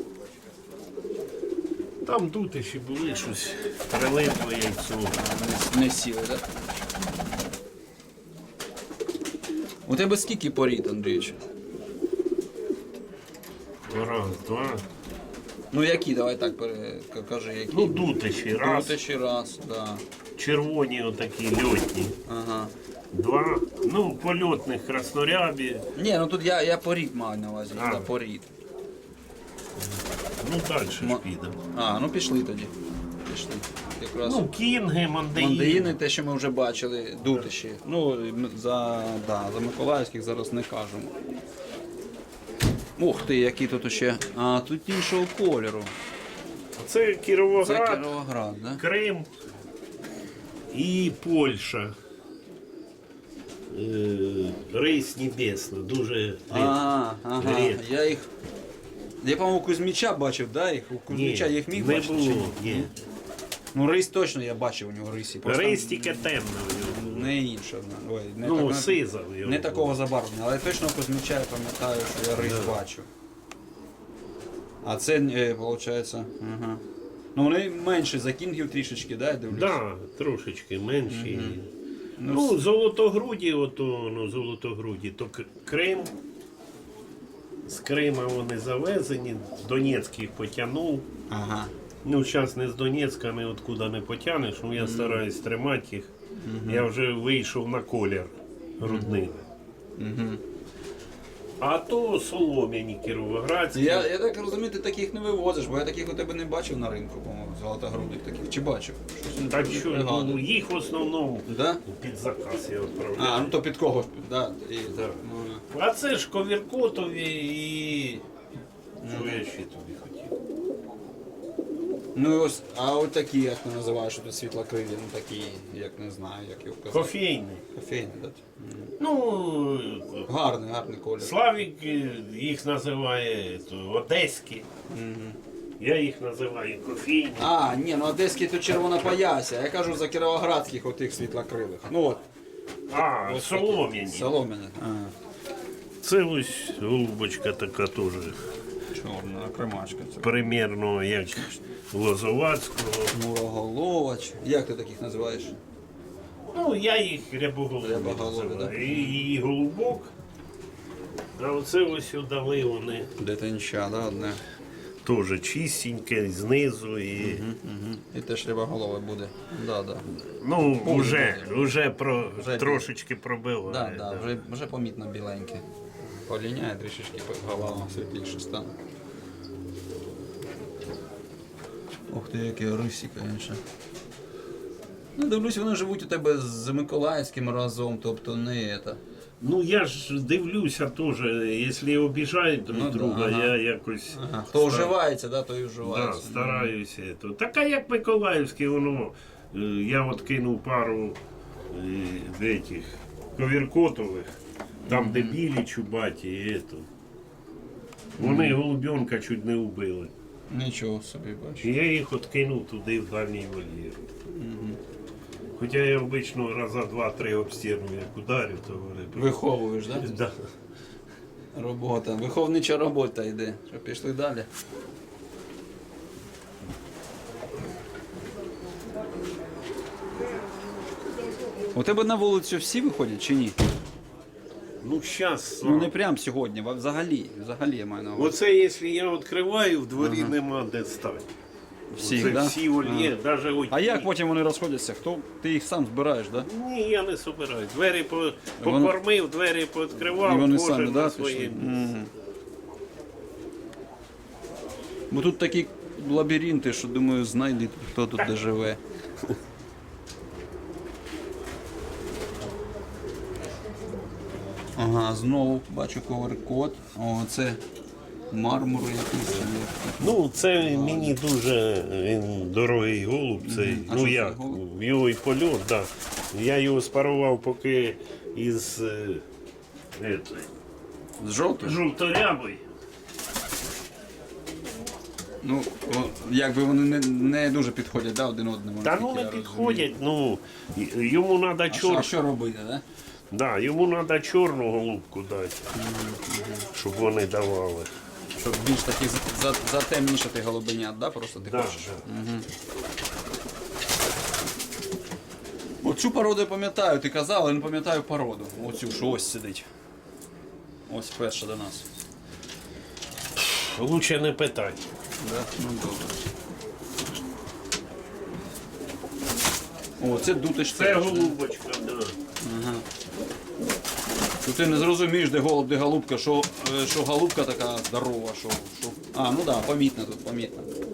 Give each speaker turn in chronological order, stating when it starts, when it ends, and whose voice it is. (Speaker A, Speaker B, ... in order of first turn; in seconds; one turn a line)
Speaker A: 2.0-5.2
Speaker B: 5.1-6.6
Speaker B: 9.8-11.4
Speaker A: 13.9-14.8
Speaker B: 15.7-20.0
Speaker A: 17.7-19.0
Speaker A: 20.4-22.2
Speaker B: 22.3-22.7
Speaker A: 23.1-25.9
Speaker B: 26.0-28.5
Speaker A: 27.8-28.1
Speaker A: 29.8-31.6
Speaker B: 31.0-32.7
Speaker B: 33.2-34.5
Speaker A: 34.2-36.0
Speaker B: 35.3-41.1
Speaker B: 43.0-45.9
Speaker A: 46.8-48.1
Speaker B: 47.6-48.8
Speaker A: 48.8-49.3
Speaker A: 50.7-51.9
Speaker A: 53.7-56.8
Speaker B: 56.5-58.3
Speaker A: 57.4-57.8
Speaker B: 59.2-62.9
Speaker A: 61.1-62.9
Speaker B: 63.7-73.1
Speaker A: 65.4-67.3
Speaker A: 68.4-70.0
Speaker A: 72.4-72.8
Speaker B: 74.8-76.8
Speaker B: 77.3-79.8
Speaker A: 79.5-81.7
Speaker B: 81.1-81.6
Speaker B: 82.2-82.6
Speaker A: 82.3-86.1
Speaker A: 87.7-91.1
Speaker B: 91.3-91.7
Speaker A: 92.0-96.1
Speaker B: 94.8-95.2
Speaker B: 96.4-96.9
Speaker A: 96.6-99.5
Speaker B: 98.8-99.1
Speaker B: 100.0-100.4
Speaker A: 101.6-104.1
Speaker B: 103.7-110.4
Speaker A: 109.5-113.6
Speaker B: 111.5-111.8
Speaker B: 113.2-115.6
Speaker A: 114.9-118.2
Speaker A: 119.0-120.3
Speaker B: 119.0-119.4
Speaker B: 122.2-127.1
Speaker A: 126.9-127.6
Speaker B: 127.7-128.9
Speaker A: 129.0-130.3
Speaker B: 130.3-131.4
Speaker A: 131.2-134.7
Speaker B: 134.9-135.4
Speaker A: 135.8-137.6
Speaker B: 137.4-142.2
Speaker A: 142.9-144.3
Speaker B: 142.9-145.2
Speaker A: 146.0-148.4
Speaker B: 148.9-150.4
Speaker A: 150.2-153.2
Speaker B: 153.1-155.6
Speaker A: 156.5-160.1
Speaker B: 157.8-159.3
Speaker A: 161.4-163.1
Speaker B: 163.2-164.4
Speaker A: 165.1-167.4
Speaker B: 167.2-170.1
Speaker A: 170.1-174.4
Speaker B: 170.7-172.9
Speaker B: 173.7-175.7
Speaker B: 176.2-178.8
Speaker B: 182.1-183.6
Speaker B: 185.2-189.0
Speaker A: 189.4-195.0
Speaker B: 192.7-193.5
Speaker B: 194.1-196.7
Speaker A: 195.8-201.2
Speaker A: 201.7-206.9
Speaker B: 204.8-205.4
Speaker B: 208.2-208.6
Speaker A: 208.2-210.1
Speaker B: 210.5-211.7
Speaker A: 211.6-214.1
Speaker B: 214.3-214.8
Speaker A: 215.6-219.4
Speaker B: 219.1-220.1
Speaker A: 219.9-220.5
Speaker B: 221.5-224.5
Speaker B: 231.8-233.6
Speaker A: 234.8-235.9
Speaker B: 235.6-238.4
Speaker A: 238.2-241.3
Speaker B: 240.0-240.3
Speaker B: 241.9-243.2
Speaker A: 242.0-244.1
Speaker B: 243.7-246.5
Speaker A: 246.4-251.9
Speaker B: 248.6-248.9
Speaker B: 250.0-252.1
Speaker B: 255.1-258.8
Speaker B: 264.8-267.6
Speaker B: 268.3-271.1
Speaker A: 270.0-279.2
Speaker B: 273.4-274.6
Speaker A: 280.0-280.5
Speaker B: 281.2-281.8
Speaker A: 281.6-282.6
Speaker B: 285.4-289.9
Speaker A: 288.8-292.1
Speaker B: 291.7-292.8
Speaker A: 293.3-295.7
Speaker B: 295.7-296.7
Speaker A: 296.8-297.9
Speaker B: 298.4-302.5
Speaker A: 301.4-302.1
Speaker B: 305.8-309.7
Speaker B: 310.9-311.9
Speaker A: 313.4-314.8
Speaker B: 315.2-316.3
Speaker B: 320.0-321.4
Speaker A: 320.8-322.1
Speaker B: 322.4-322.9
Speaker B: 324.4-330.7